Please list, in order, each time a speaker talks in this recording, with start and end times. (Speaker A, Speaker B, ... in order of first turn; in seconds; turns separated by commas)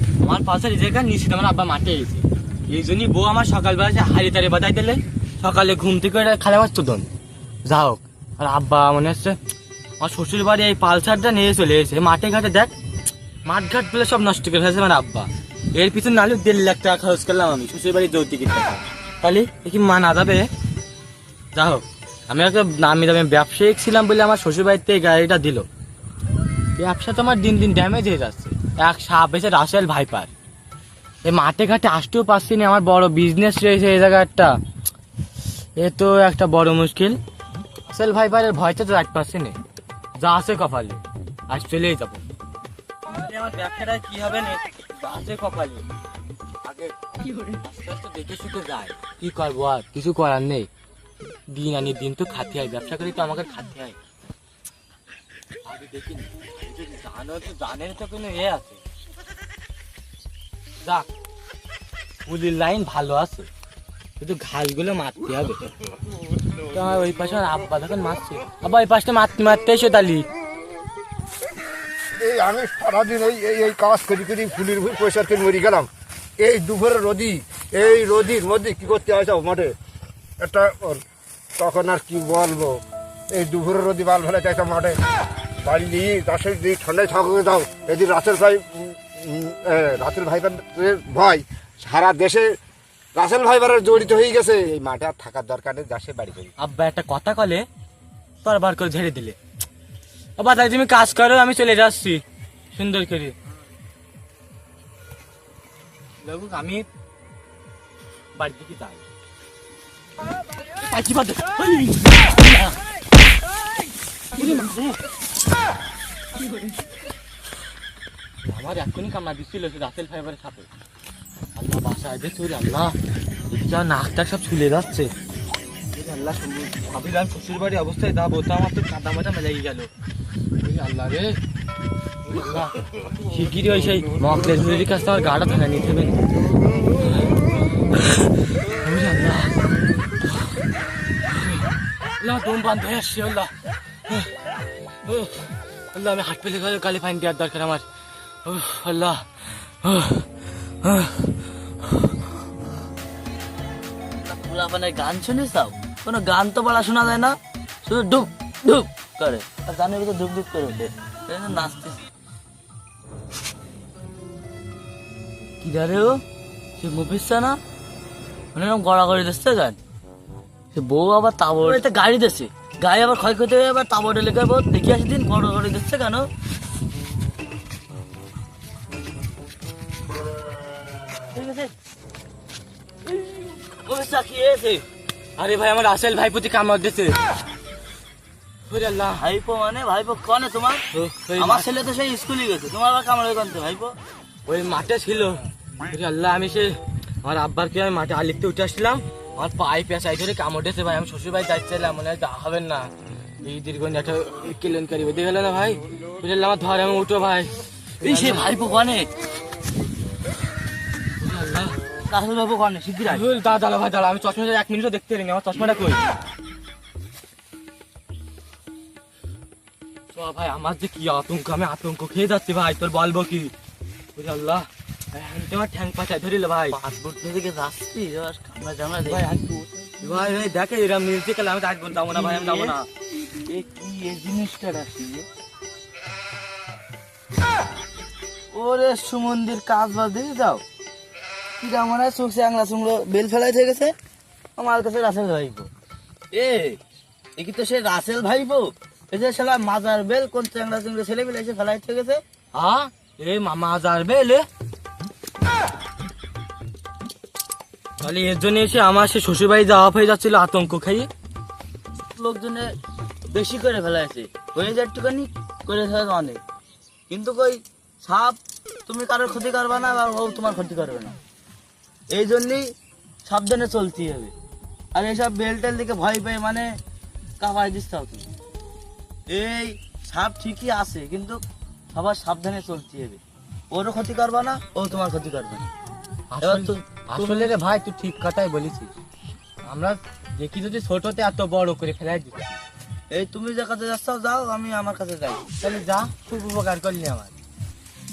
Speaker A: 0.2-7.1, Speaker A: 7.6-9.4, Speaker A: 10.0-12.7, Speaker A: 13.4-20.5, Speaker A: 21.5-25.7, Speaker A: 26.8-30.3, Speaker A: 31.2-34.6, Speaker A: 35.8-37.2, Speaker A: 37.9-39.6, Speaker A: 40.2-42.2, Speaker A: 43.0-45.8, Speaker A: 46.6-50.7, Speaker A: 51.5-54.0, Speaker A: 55.6-58.8, Speaker A: 60.8-61.1, Speaker A: 62.2-63.5, Speaker A: 64.2-65.7, Speaker A: 66.6-70.3, Speaker B: 72.2-79.7, Speaker B: 80.4-81.0, Speaker B: 81.5-85.0, Speaker B: 85.6-92.6, Speaker B: 93.1-96.5, Speaker A: 96.6-97.7, Speaker A: 98.4-99.3, Speaker A: 100.4-102.2, Speaker A: 102.7-103.3, Speaker A: 106.2-106.8, Speaker A: 108.3-109.0, Speaker A: 110.8-112.8, Speaker A: 114.3-115.0, Speaker A: 118.4-120.7, Speaker A: 121.5-122.9, Speaker A: 123.5-125.1, Speaker A: 125.9-129.9, Speaker A: 130.6-131.4, Speaker A: 132.3-136.3, Speaker A: 137.0-137.3, Speaker A: 137.9-139.7, Speaker A: 141.3-141.6, Speaker A: 142.2-143.5, Speaker A: 145.0-147.8, Speaker A: 148.4-151.4, Speaker C: 154.2-162.0, Speaker C: 165.6-166.2, Speaker C: 166.8-167.6, Speaker C: 168.5-169.8, Speaker C: 170.7-176.3, Speaker C: 181.3-181.7, Speaker C: 183.2-184.8, Speaker A: 185.4-187.2, Speaker A: 188.7-189.2, Speaker C: 189.2-190.8, Speaker A: 190.9-191.7, Speaker C: 191.4-193.9, Speaker A: 194.4-208.5, Speaker C: 208.0-209.1, Speaker A: 211.2-211.7, Speaker C: 212.1-213.4, Speaker A: 213.1-216.0, Speaker A: 220.1-223.5, Speaker A: 224.2-226.8, Speaker C: 226.7-229.3, Speaker A: 229.1-232.9, Speaker C: 232.1-232.8, Speaker C: 233.4-235.3, Speaker C: 238.5-240.6, Speaker C: 241.6-243.9, Speaker C: 244.6-245.7, Speaker C: 246.3-246.8, Speaker C: 247.4-252.2, Speaker A: 252.5-254.4, Speaker A: 258.0-261.1, Speaker C: 262.1-262.7, Speaker C: 263.3-266.4, Speaker C: 267.1-271.2, Speaker C: 272.1-272.7, Speaker C: 273.2-274.3, Speaker C: 274.9-276.7, Speaker C: 277.4-278.3, Speaker C: 279.3-281.4, Speaker C: 281.9-283.2, Speaker C: 283.7-285.7, Speaker A: 286.3-288.9, Speaker C: 286.4-287.6, Speaker A: 289.6-292.6, Speaker C: 293.1-295.4, Speaker A: 295.6-297.3